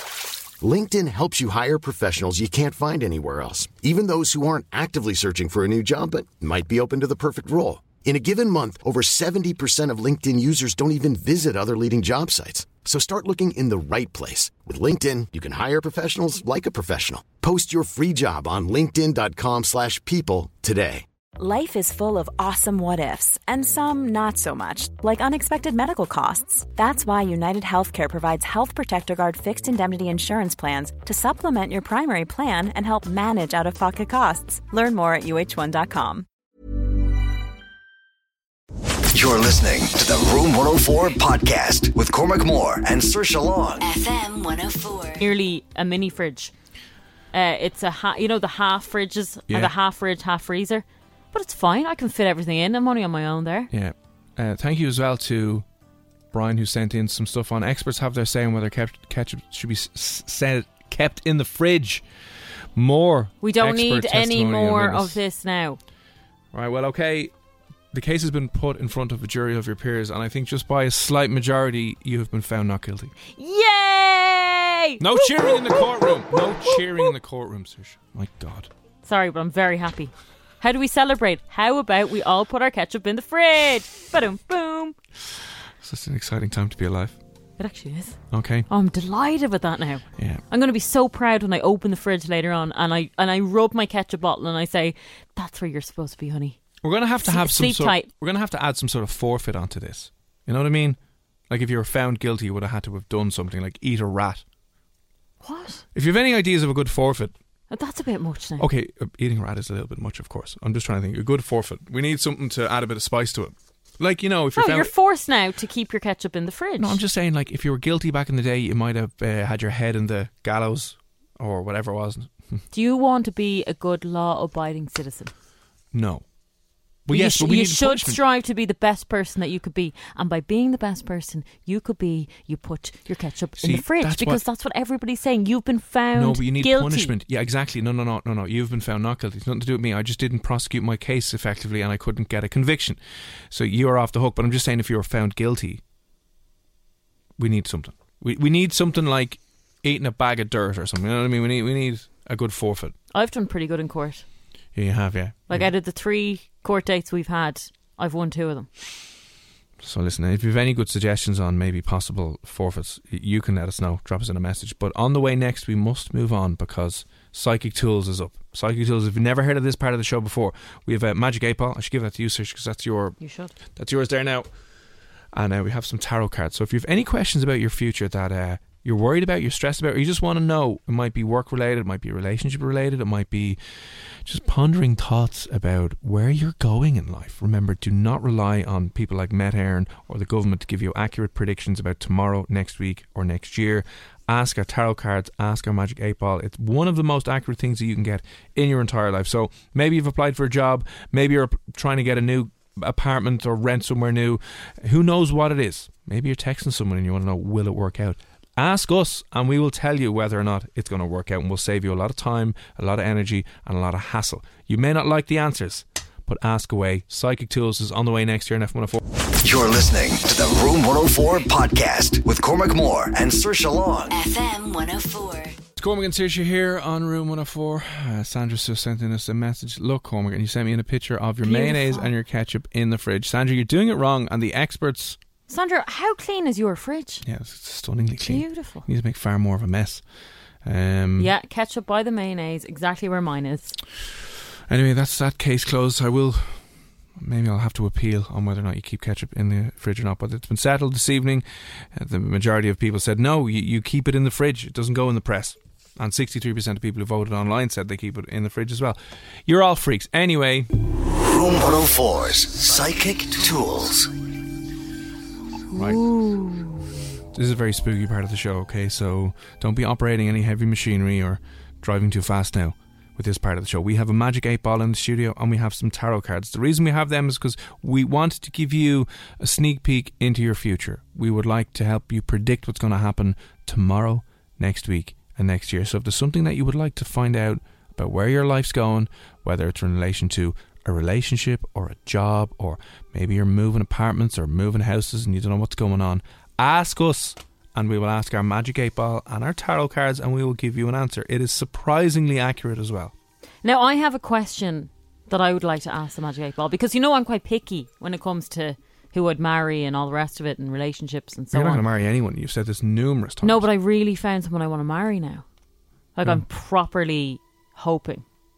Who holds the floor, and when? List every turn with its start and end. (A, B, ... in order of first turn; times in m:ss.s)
0:00.6-0:21.0 A
0:21.4-0:36.2 B
0:39.1-0:43.9 C
0:43.8-0:45.2 D
0:45.2-0:46.5 E
0:47.3-0:53.7 E
0:49.5-0:49.7 F
0:53.7-0:55.6 F
0:56.3-1:02.0 F
1:02.7-1:05.2 F
1:03.4-1:05.8 E
1:06.5-1:07.3 F
1:07.9-1:13.1 F
1:13.3-1:17.1 E
1:15.0-1:18.7 F
1:19.0-1:25.0 E
1:25.8-1:27.2 F
1:27.6-1:36.6 E
1:28.3-1:28.7 F
1:30.2-1:30.4 F
1:36.8-1:44.4 F
1:37.2-1:38.1 E
1:45.4-1:45.8 E
1:45.9-1:47.3 F
1:47.7-1:48.7 E
1:48.6-1:54.9 F
1:54.5-1:57.0 E
1:56.8-2:02.6 F
2:02.7-2:05.3 E
2:05.9-2:06.2 F
2:07.0-2:08.2 F
2:07.1-2:17.1 E
2:13.6-2:14.4 F
2:16.1-2:25.8 F
2:27.4-2:32.9 F
2:33.1-2:34.2 E
2:34.7-2:35.7 F
2:35.5-2:38.7 E
2:39.8-2:54.5 F
2:53.2-2:53.5 E
2:55.3-3:39.0 F
3:39.4-3:44.2 C
3:44.1-3:45.6 D
3:45.8-3:55.2 F
3:51.4-3:52.1 E
3:55.5-3:57.2 E
3:57.2-4:00.0 F
3:58.2-3:58.8 E
4:00.6-4:01.3 F
4:01.2-4:03.8 E
4:04.7-4:20.7 F
4:21.2-4:24.1 C
4:25.7-4:26.1 F
4:25.7-4:26.8 E
4:27.3-5:03.1 F
5:03.6-5:11.8 E
5:11.5-5:13.7 F
5:13.4-5:15.4 E
5:16.1-5:18.2 E